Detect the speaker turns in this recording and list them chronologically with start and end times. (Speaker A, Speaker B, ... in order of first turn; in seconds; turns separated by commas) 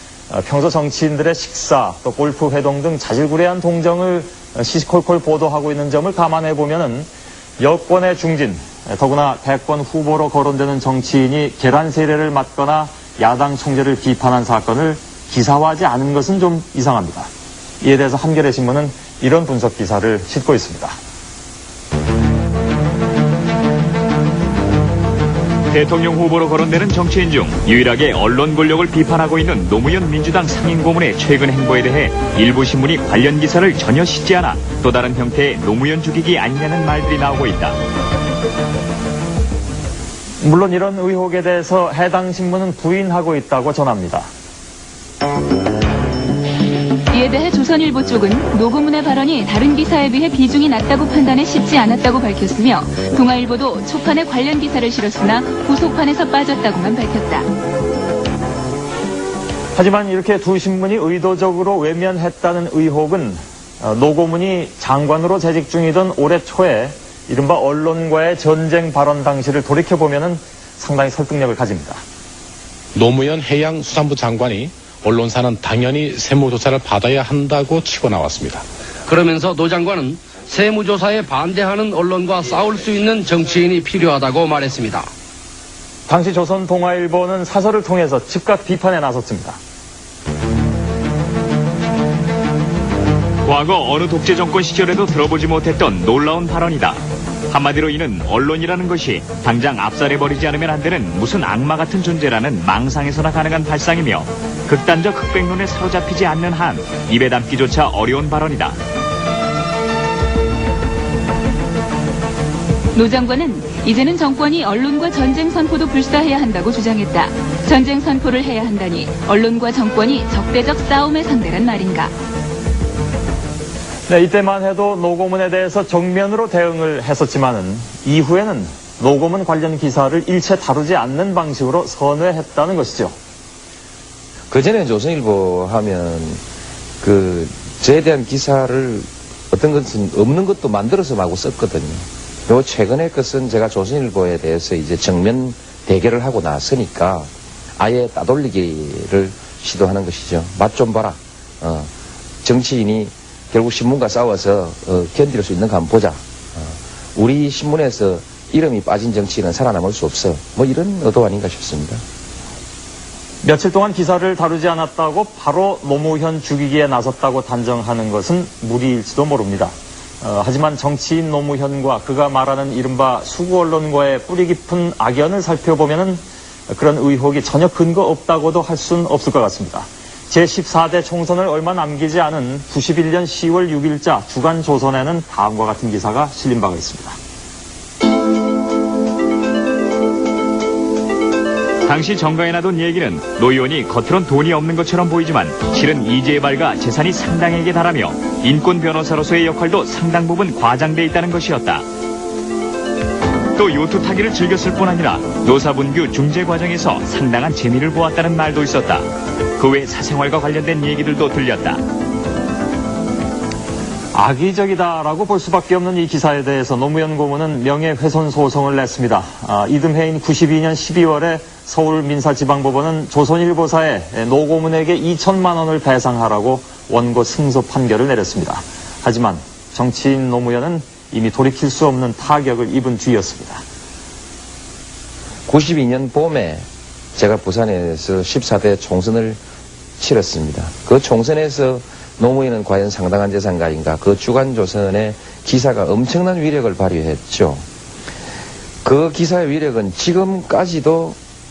Speaker A: 0.3-7.1, Speaker A: 7.6-17.3, Speaker A: 17.8-21.0, Speaker B: 25.7-37.8, Speaker A: 40.4-44.3, Speaker C: 47.1-57.5, Speaker A: 59.7-72.0, Speaker D: 72.9-78.7, Speaker E: 79.1-85.1, Speaker A: 86.1-89.6, Speaker B: 93.4-108.8, Speaker C: 112.9-122.1, Speaker A: 124.1-133.1, Speaker F: 134.5-136.4, Speaker F: 137.0-151.9, Speaker F: 152.4-162.0, Speaker A: 163.4-187.2, Speaker B: 191.8-201.8, Speaker B: 203.6-211.8, Speaker A: 214.1-233.6, Speaker F: 235.5-239.4, Speaker F: 240.0-247.6, Speaker F: 248.8-251.2